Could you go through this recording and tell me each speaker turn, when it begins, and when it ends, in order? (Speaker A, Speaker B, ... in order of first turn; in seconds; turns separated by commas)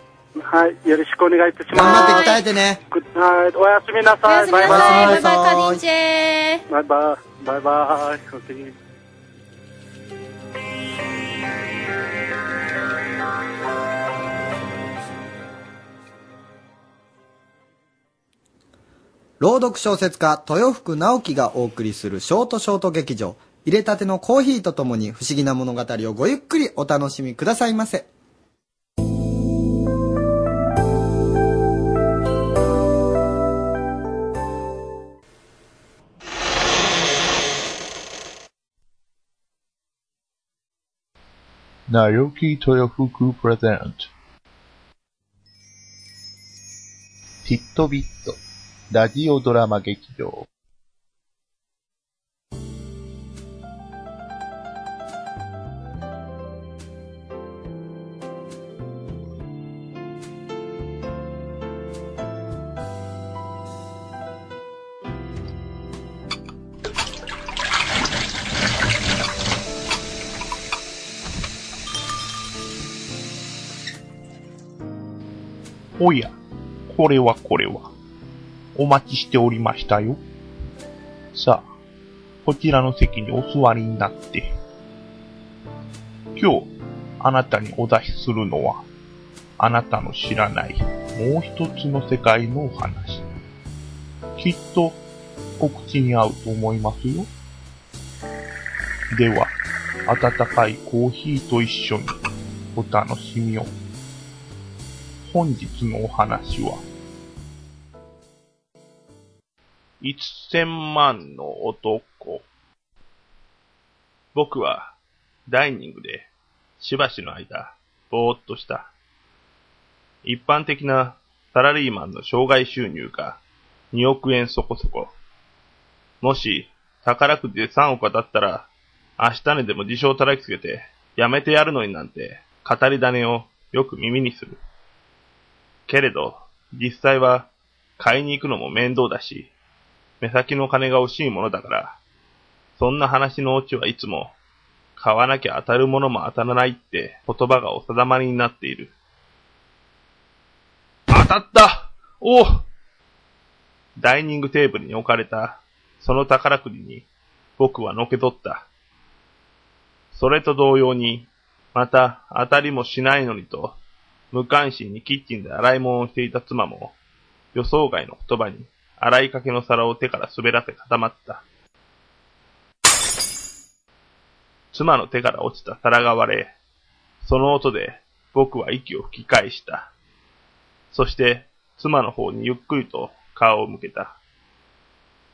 Speaker A: 0.4-2.4, Speaker B: 1.7-2.8, Speaker C: 1.8-2.4, Speaker A: 2.9-5.2, Speaker C: 4.2-6.6, Speaker B: 4.6-5.8, Speaker A: 6.7-8.7, Speaker B: 19.4-28.1, Speaker D: 41.9-44.1, Speaker D: 47.5-48.4, Speaker D: 48.9-50.4, Speaker D: 76.0-76.3, Speaker D: 76.9-77.9, Speaker D: 78.7-80.2, Speaker D: 81.3-81.7, Speaker D: 82.4-84.5, Speaker D: 86.3-88.8, Speaker D: 89.6-93.2, Speaker D: 94.3-95.0, Speaker D: 95.6-97.3, Speaker D: 99.1-99.5, Speaker D: 100.1-102.1, Speaker D: 102.7-103.7, Speaker D: 105.2-106.8, Speaker E: 110.0-112.4, Speaker E: 114.3-114.9, Speaker E: 115.5-116.3, Speaker E: 116.8-118.9, Speaker E: 120.2-123.4, Speaker E: 123.9-125.1, Speaker E: 126.2-134.6, Speaker E: 135.9-139.5, Speaker E: 140.2-142.0, Speaker E: 142.8-144.3, Speaker E: 145.0-148.9, Speaker E: 151.1-152.6, Speaker E: 154.0-157.1, Speaker E: 157.6-158.7, Speaker E: 160.1-163.8, Speaker E: 164.3-166.9, Speaker E: 167.5-171.4, Speaker E: 174.7-176.5, Speaker E: 177.2-179.9, Speaker E: 180.9-184.2